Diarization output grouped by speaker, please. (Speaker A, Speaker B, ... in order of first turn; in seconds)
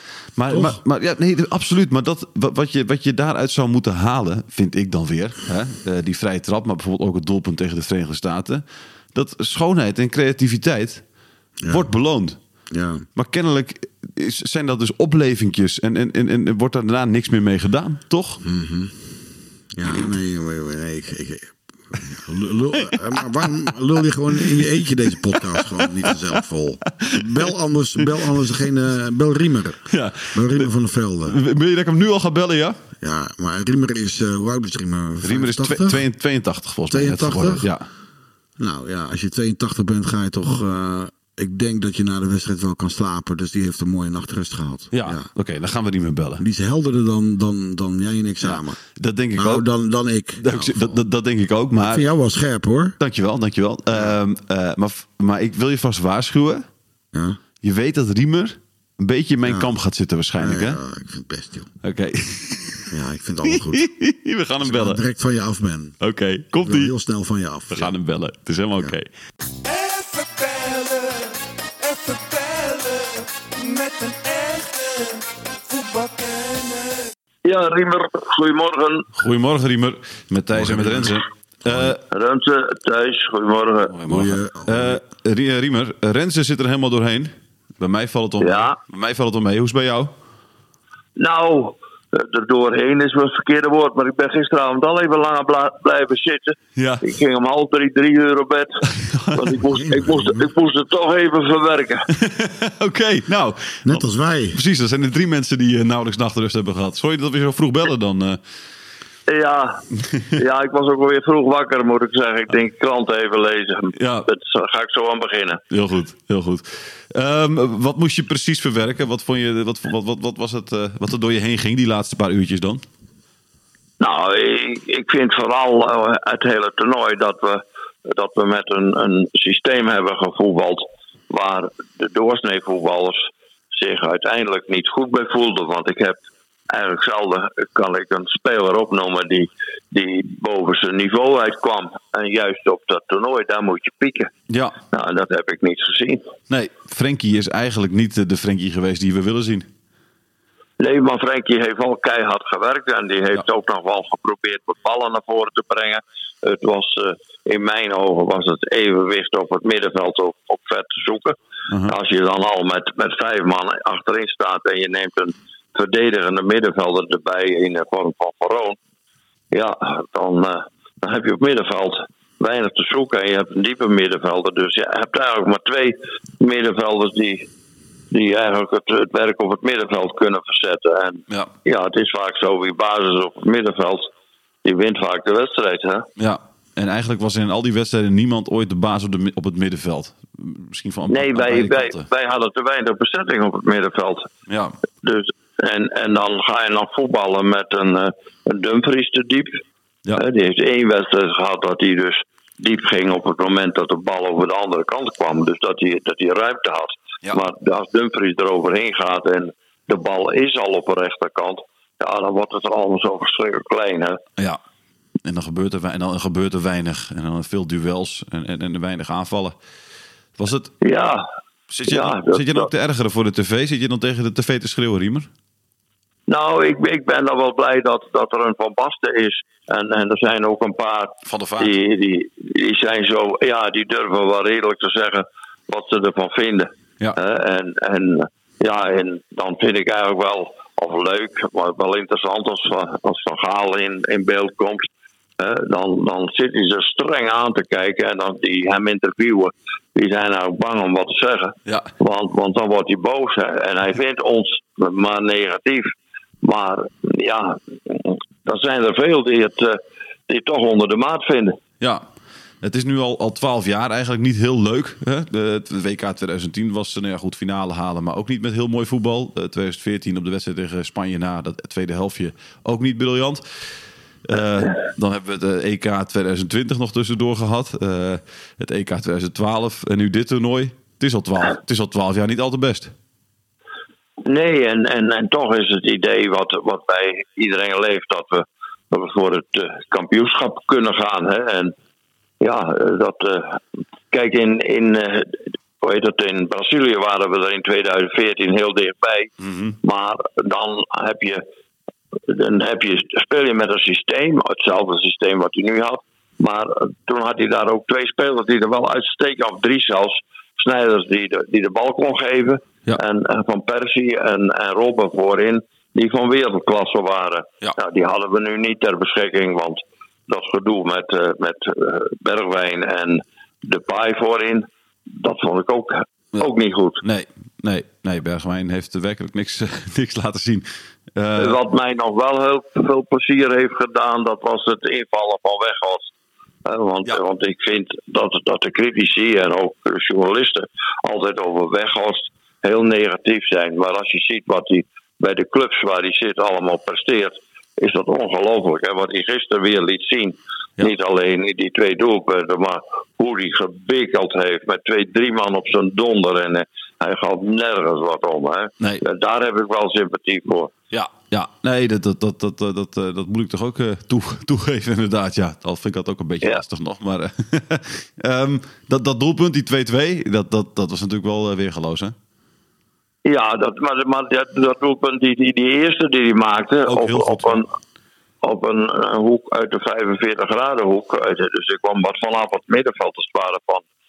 Speaker A: 0.4-11.0, 11.7-12.4, 13.2-18.4, 29.9-30.7, 31.3-32.8, 35.2-37.9, 44.9-46.4, 48.4-49.7, 50.4-52.0, 53.0-56.6, 57.6-60.8, 61.8-62.9, 63.5-65.0, 66.0-66.9, 67.7-69.1, 79.2-82.0, 83.9-90.1, 96.8-97.0, 99.0-99.6, 102.1-104.0, 104.5-108.4, 114.0-114.3, 115.7-122.8, 144.5-144.8, 146.5-149.7, 186.2-192.1, 194.5-194.8, 215.2-219.6, 220.4-220.7, 221.7-225.3, 231.3-231.7, 261.8-262.1, 262.6-273.4, 274.3-282.9, 299.4-299.8, 327.0-331.6, 360.9-372.1, 376.9-377.6
Speaker B: 0.5-0.8, 11.6-11.9, 12.7-13.1, 18.4-19.2, 19.7-31.4, 33.0-36.0, 36.9-37.7, 38.6-45.3, 46.4-48.8, 49.4-51.0, 51.8-53.0, 53.9-54.2, 57.1-57.4, 59.4-59.7, 60.4-61.7, 62.9-63.9, 64.6-66.0, 66.6-67.9, 80.5-82.0, 84.1-85.0, 99.7-100.4, 103.8-104.6
Speaker C: 69.6-77.1
Speaker D: 77.5-79.1, 82.1-83.9, 88.4-88.8, 91.2-102.1, 109.3-115.6, 124.0-144.3, 144.9-146.3, 150.8-168.8, 169.5-177.5, 178.1-184.1, 184.6-186.1, 191.1-194.3, 195.0-199.6, 200.2-214.2, 220.8-221.2, 221.9-222.7, 226.3-244.9, 245.4-255.9, 256.4-261.6, 284.2-291.7, 292.4-293.6, 294.1-299.3, 299.8-301.4, 302.3-327.0, 331.4-336.1, 336.7-360.7, 373.2-377.7, 378.4-383.9